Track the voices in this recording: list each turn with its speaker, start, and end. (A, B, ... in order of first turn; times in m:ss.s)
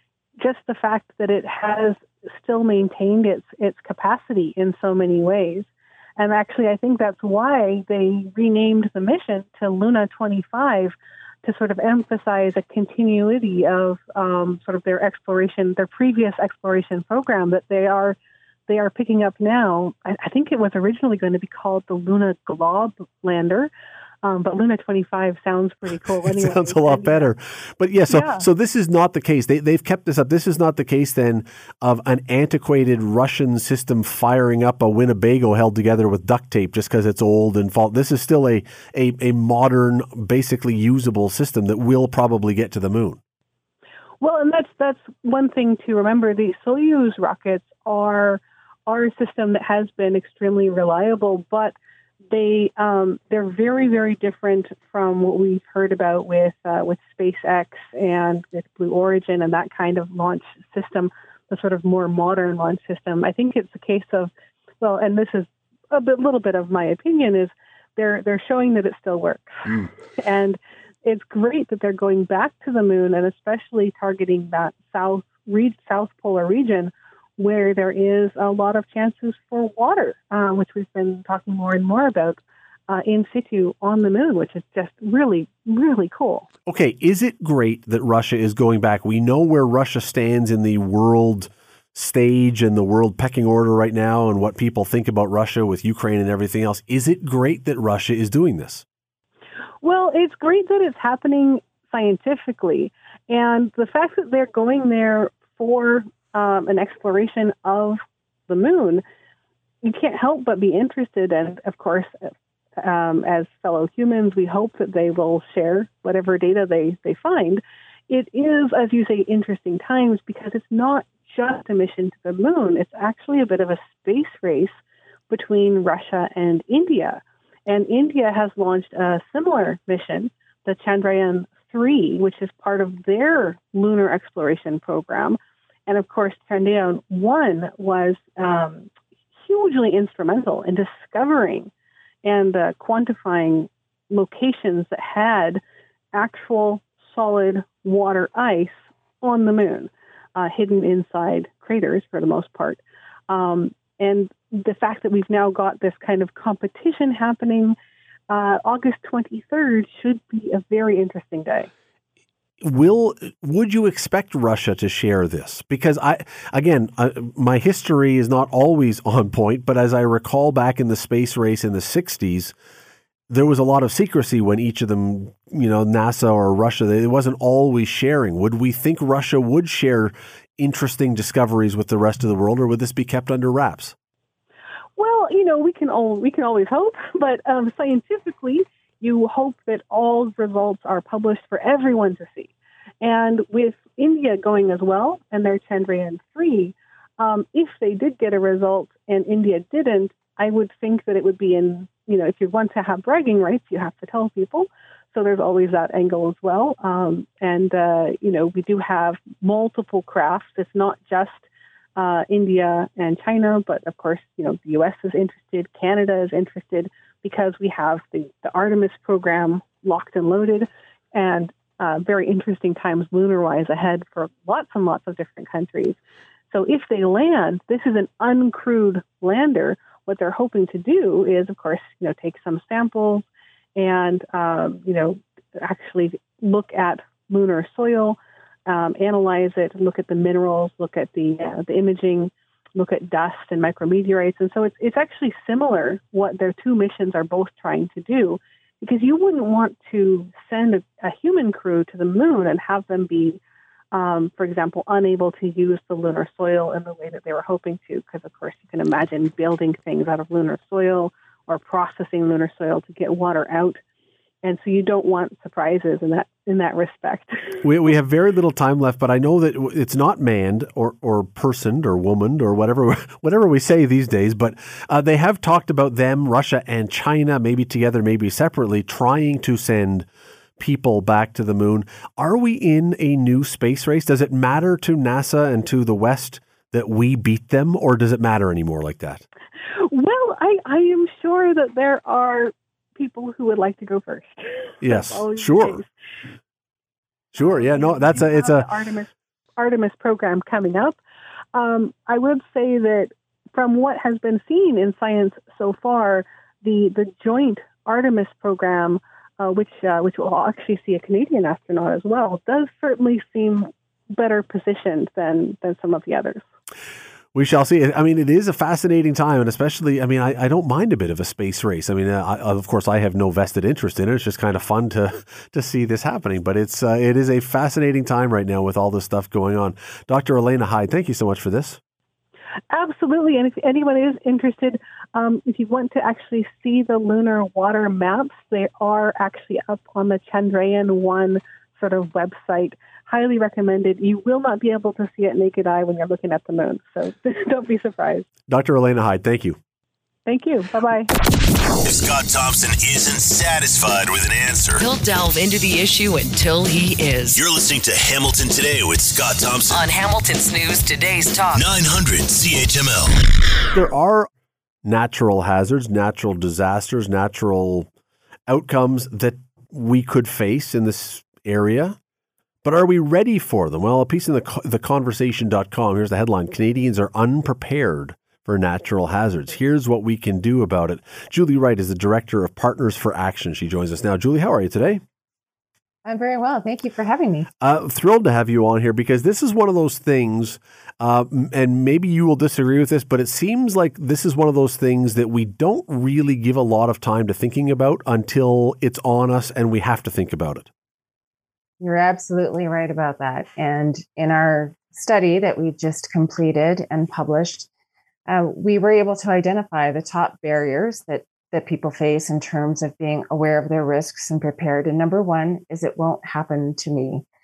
0:00.4-0:18.2 A
0:18.7-0:23.7 A
0:24.2-0:27.3 A
0:26.2-0:43.2 B
0:28.1-0:28.5 A
0:44.2-0:51.7 A
0:52.3-1:26.5 A
1:26.6-1:38.8 B
1:39.8-1:49.0 A
1:49.8-1:52.1 A
1:52.8-2:04.8 A
2:05.3-2:18.9 A
2:19.4-2:21.7 A
2:22.2-2:25.6 A
2:26.1-2:37.8 A
2:38.3-2:41.7 A
2:42.6-2:52.5 B
2:53.3-3:03.9 B
3:05.0-3:31.4 A
3:32.0-3:46.0 A
3:46.5-3:53.2 A
3:53.8-4:13.4 A
4:13.9-4:23.8 A
4:24.4-4:27.6 A
4:27.6-4:40.1 B
4:40.6-4:49.2 B
4:49.8-4:55.9 A
4:54.8-4:55.8 B
4:57.3-4:58.7 B
4:57.3-5:01.0 A
5:01.5-5:16.4 A
5:17.3-5:31.8 B
5:32.7-5:48.2 A
5:48.5-5:49.6 B
5:50.2-5:51.1 A
5:51.8-5:54.8 C
5:54.8-5:57.4 D
5:57.3-5:59.8 C
5:59.7-6:01.6 D
6:01.5-6:03.2 C
6:03.7-6:04.3 B
6:04.8-6:07.9 B
6:08.5-6:12.0 B
6:12.6-6:25.0 B
6:26.0-6:27.5 E
6:27.6-6:40.7 B
6:41.8-6:47.7 E
6:48.3-6:57.2 E